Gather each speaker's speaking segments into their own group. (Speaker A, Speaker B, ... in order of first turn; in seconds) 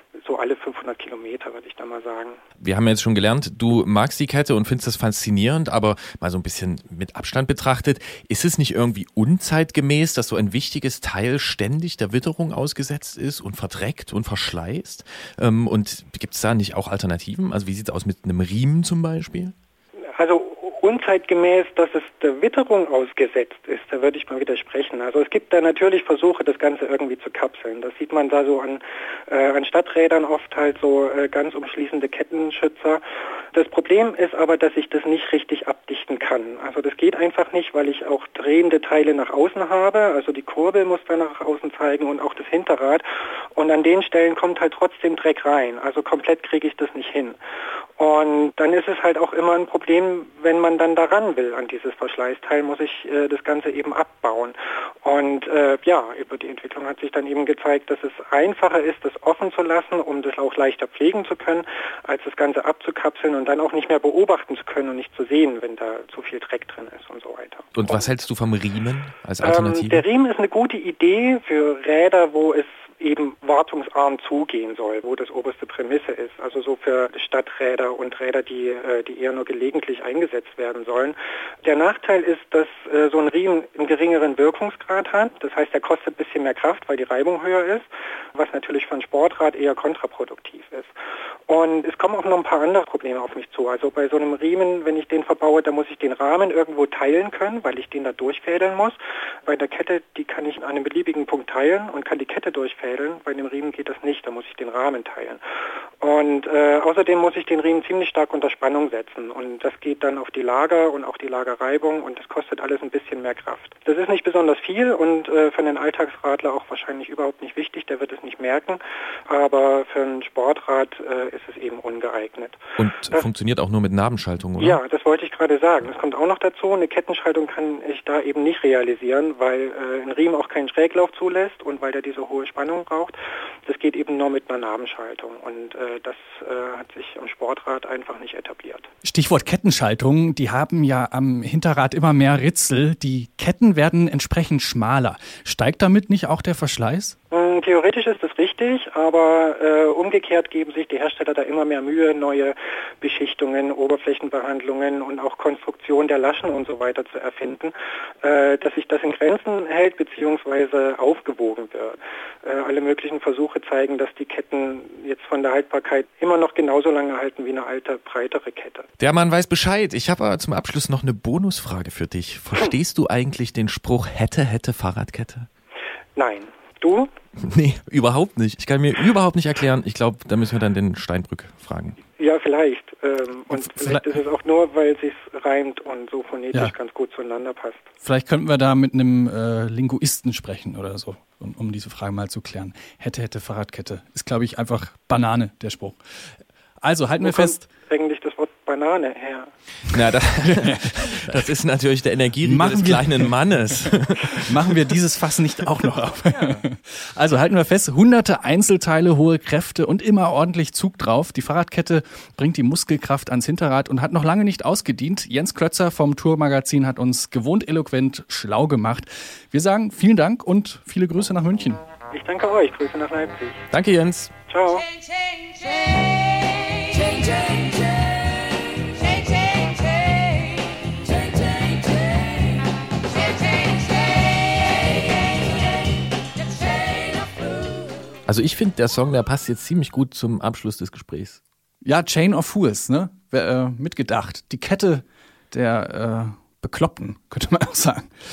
Speaker A: 0.2-2.4, 20.2-47.4, 48.0-68.1, 69.4-91.0, 91.5-105.4, 106.0-123.3, 124.6-138.9, 147.3-168.9, 176.2-177.1, 182.2-187.9, 197.2-199.5, 222.1-223.6, 224.5-224.8
Speaker B: 2.6-19.6, 67.8-70.0, 122.8-124.8, 169.0-175.5, 177.4-182.0, 199.9-204.4, 223.7-224.3, 238.3-241.4
Speaker C: 139.0-147.2, 183.5-184.1, 188.0-196.0, 196.8-197.6, 200.5-201.4, 202.4-203.3, 204.5-221.8, 241.8-248.1